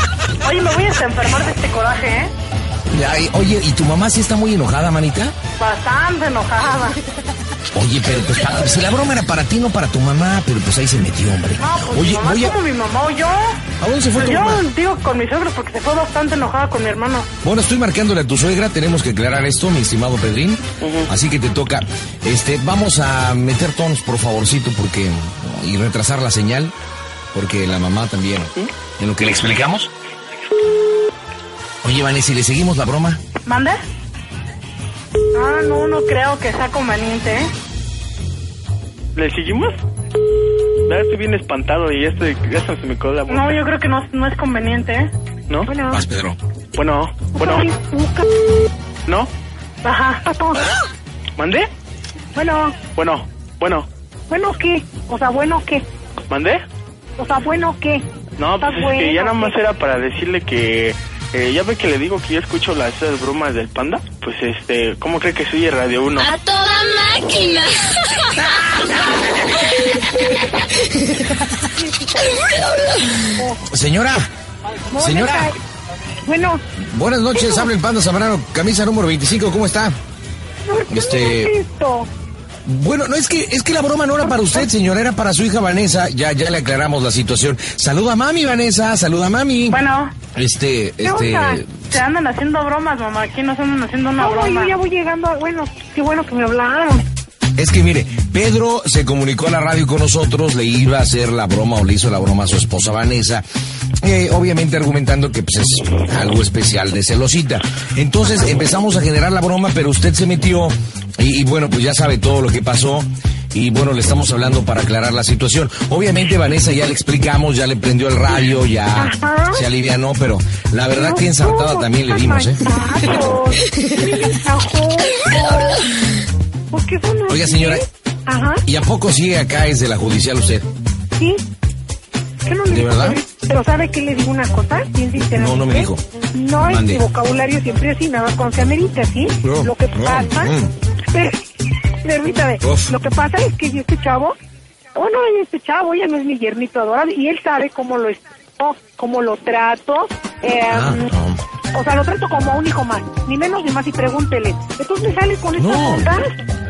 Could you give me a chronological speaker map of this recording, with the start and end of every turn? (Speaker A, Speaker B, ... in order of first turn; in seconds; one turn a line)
Speaker A: 0.4-2.3
Speaker B: 2.9-5.3
Speaker A: 5.6-7.0
Speaker B: 7.7-12.6
Speaker A: 11.6-13.6
Speaker B: 13.8-14.6
Speaker A: 14.2-17.3
Speaker B: 17.4-26.7
Speaker C: 20.8-21.1
Speaker B: 27.3-29.9
Speaker B: 31.8-33.2
Speaker A: 33.5-33.8
Speaker A: 35.3-37.5
Speaker C: 39.1-39.8
Speaker C: 40.9-43.6
Speaker A: 43.3-45.1
Speaker C: 45.5-45.7
Speaker D: 45.6-46.0
Speaker B: 45.9-46.4
Speaker C: 46.7-47.7
Speaker D: 47.3-48.3
Speaker C: 49.0-49.3
Speaker A: 49.8-50.2
Speaker D: 50.2-50.6
Speaker C: 51.4-51.7
Speaker D: 52.3-52.8
Speaker C: 52.9-53.9
Speaker D: 54.3-55.8
Speaker C: 56.3-56.6
Speaker D: 57.2-58.0
Speaker C: 58.4-66.3
Speaker D: 58.6-59.6
Speaker E: 66.2-68.5
Speaker B: 71.3-71.6
Speaker D: 71.7-72.3
Speaker D: 73.3-73.6
Speaker B: 73.7-74.3
Speaker D: 74.9-75.5
Speaker B: 75.0-75.5
Speaker D: 76.2-76.6
Speaker B: 76.8-80.0
Speaker D: 77.3-77.7
Speaker D: 80.6-82.1
Speaker B: 80.9-81.5
Speaker B: 82.7-89.8
Speaker D: 84.3-84.6
Speaker A: 89.7-90.1
Speaker B: 90.3-91.8
Speaker D: 91.0-91.6
Speaker A: 91.9-94.8
Speaker D: 94.2-97.0
Speaker B: 97.5-103.4
Speaker B: 104.0-122.8
Speaker D: 119.0-119.6
Speaker D: 120.9-125.8
Speaker D: 126.7-128.6
Speaker B: 127.3-127.8
Speaker B: 128.6-130.7
Speaker D: 131.2-131.4
Speaker D: 132.4-140.5
Speaker B: 132.7-133.2
Speaker B: 135.3-136.0
Speaker B: 136.6-137.0
Speaker B: 139.4-140.7
Speaker D: 141.1-141.4
Speaker D: 142.0-144.3
Speaker B: 142.6-142.9
Speaker D: 144.9-151.1
Speaker B: 150.7-151.4
Speaker D: 151.7-156.3
Speaker B: 155.6-156.1